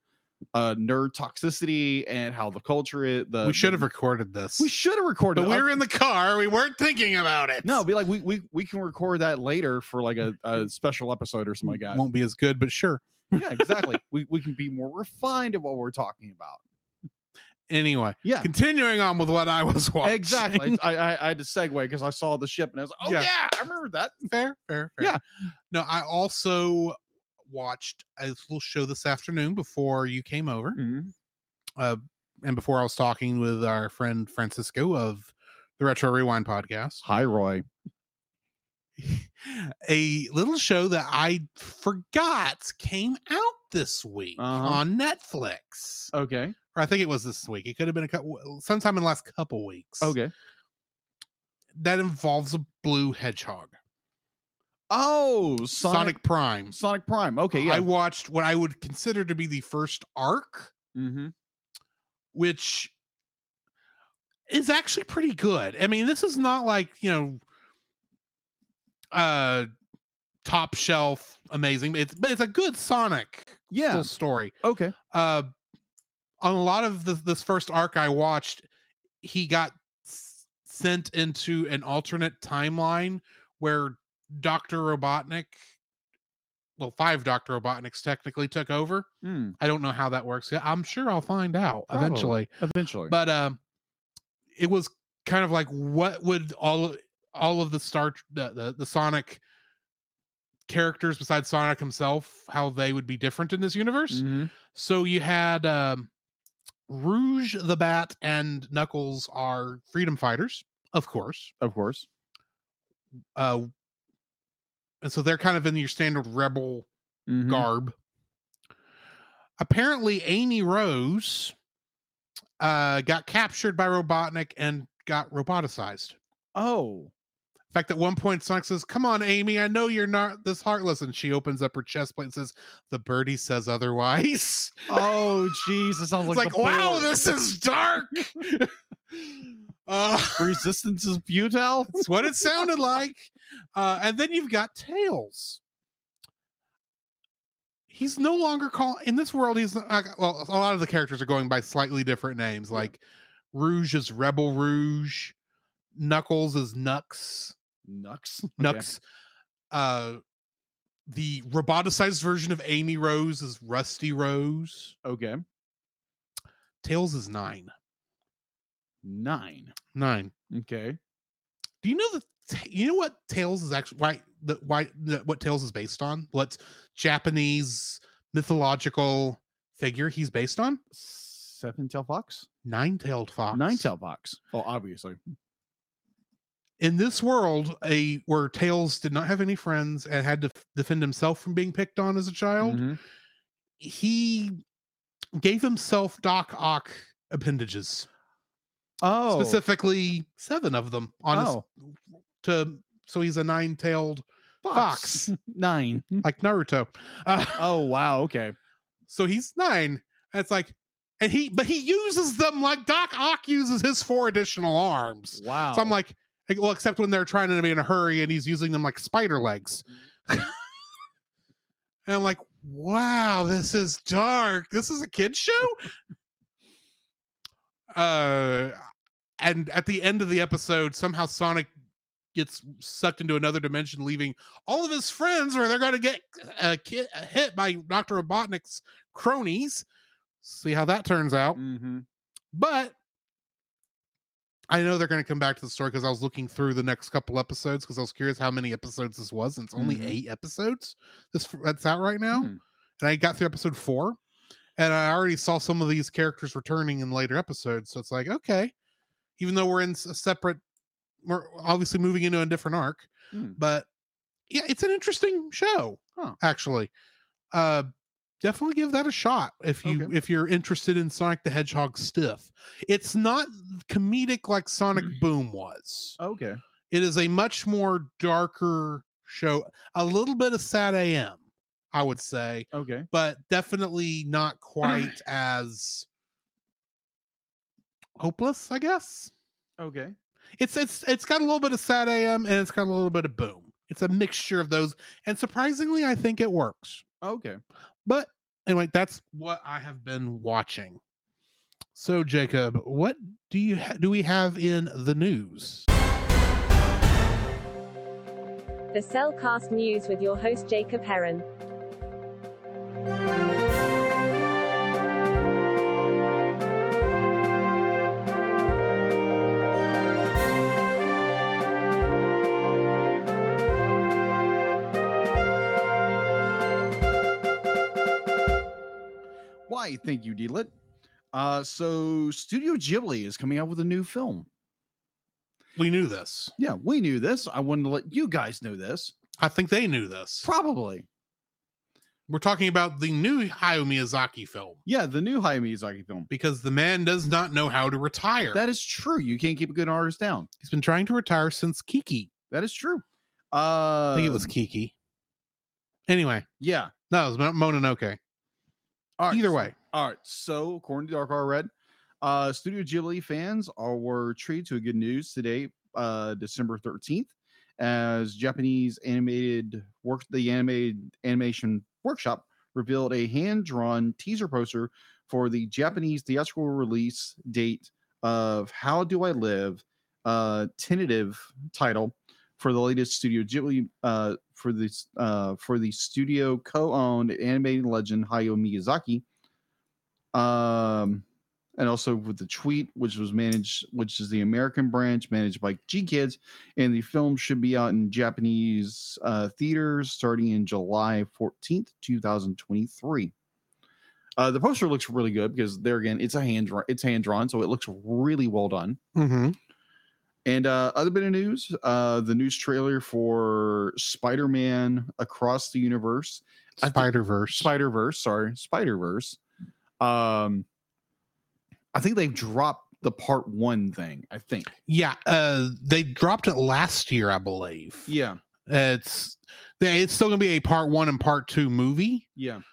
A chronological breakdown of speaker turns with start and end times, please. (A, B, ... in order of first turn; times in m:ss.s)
0:00.5-0:03.9 A
0:03.4-0:04.7 B
0:04.6-0:05.7 A
0:05.3-0:07.8 B
0:07.6-0:12.0 A
0:11.7-0:14.0 B
0:13.3-0:16.6 A
0:17.7-0:20.8 B
0:18.2-0:18.5 A
0:20.0-0:24.3 A
0:23.0-0:23.3 B
0:24.3-0:25.2 B
0:25.7-0:30.8 B
0:30.8-0:31.1 A
0:31.8-0:37.0 B
0:37.0-0:37.6 A
0:39.0-0:46.1 B
0:44.4-0:44.8 A
0:46.1-0:46.6 A
0:46.7-0:50.1 B
0:50.0-0:50.3 A
0:51.7-0:53.7 B
0:54.9-0:56.2 A
0:55.8-0:56.8 B
0:56.7-0:57.8 A
0:57.5-1:00.7 B
1:00.9-1:01.3 A
1:02.3-1:02.9 B
1:04.5-1:07.4 B
1:09.1-1:09.7 B
1:10.4-1:14.5 B
1:13.7-1:14.1 A
1:14.6-1:14.9 A
1:15.1-1:15.5 B
1:16.4-1:18.7 B
1:19.2-1:25.6 B
1:26.8-1:32.5 B
1:29.2-1:29.6 A
1:31.9-1:33.1 A
1:33.1-1:33.6 B
1:34.5-1:39.4 B
1:40.7-1:46.1 B
1:44.1-1:44.5 A
1:46.9-1:51.5 B
1:51.6-1:52.1 A
1:53.3-1:53.7 B
1:55.0-1:56.9 B
1:57.3-1:57.7 A
1:57.4-1:57.9 B
1:59.6-2:01.5 B
2:02.6-2:06.2 B
2:06.5-2:07.1 A
2:07.7-2:15.2 B
2:14.9-2:17.2 A
2:16.2-2:20.6 B
2:20.4-2:22.0 A
2:21.9-2:25.6 B
2:27.9-2:33.0 B
2:33.5-2:35.3 B
2:35.9-2:37.6 B
2:37.8-2:38.9 A
2:38.6-2:39.0 B
2:39.7-2:40.2 B
2:41.1-2:44.9 B
2:45.0-2:45.4 A
2:46.8-2:47.7 B
2:49.0-2:49.7 A
2:49.9-2:50.3 B
2:50.5-2:51.0 A
2:51.8-3:00.8 B
3:00.9-3:02.5 A
3:02.6-3:03.9 B
3:03.5-3:05.2 A
3:06.8-3:12.8 B
3:12.6-3:13.0 A
3:13.8-3:14.6 B
3:15.4-3:18.1 B
3:19.0-3:19.6 A
3:19.3-3:21.6 B
3:21.3-3:21.6 A
3:22.4-3:25.3 B
3:24.6-3:26.2 A
3:26.2-3:27.7 B
3:27.6-3:28.5 A
3:29.1-3:40.6 B
3:35.4-3:36.0 A
3:42.0-3:45.9 B
3:47.9-3:48.8 B
3:49.4-3:51.7 B
3:52.3-3:59.8 B
4:00.4-4:01.6 B
4:01.5-4:02.0 A
4:02.5-4:02.9 B
4:04.7-4:14.2 B
4:09.8-4:10.2 A
4:12.3-4:12.6 A
4:14.8-4:18.7 B
4:19.4-4:20.6 B
4:21.2-4:23.9 B
4:23.3-4:23.6 A
4:24.5-4:26.9 B
4:27.5-4:27.9 B
4:28.4-4:36.2 B
4:29.8-4:30.1 A
4:36.2-4:36.6 A
4:36.9-4:41.4 B
4:41.9-4:46.1 B
4:42.7-4:43.1 A
4:48.2-4:49.3 B
4:49.8-4:50.1 A
4:50.6-4:57.0 B
4:57.2-4:57.6 A
4:58.0-5:01.0 B
5:01.9-5:05.8 B
5:08.9-5:11.4 C
5:29.7-5:30.7 A
5:31.3-5:34.5 A
5:35.8-5:36.5 B
5:36.6-5:39.1 A
5:39.4-5:40.5 B
5:40.4-5:41.0 A
5:42.3-5:44.8 B
5:44.8-5:46.3 A
5:46.3-5:48.6 B
5:48.5-5:50.5 A
5:50.6-5:52.3 B
5:52.5-5:54.5 A
5:54.1-5:54.9 B
5:56.1-5:56.5 B
5:56.6-5:56.9 A
5:57.1-5:58.2 B
5:59.2-6:01.7 A
5:59.3-5:59.7 B
6:02.2-6:29.2 A
6:30.3-6:31.2 A
6:31.8-6:43.3 A
6:44.4-6:49.0 A
6:49.1-6:49.6 B
6:50.4-6:59.4 A
6:56.8-6:57.7 B
7:00.0-7:00.6 A
7:01.9-7:04.7 A
7:04.9-7:08.1 B
7:08.1-7:08.4 A
7:08.6-7:12.2 B
7:12.4-7:12.6 A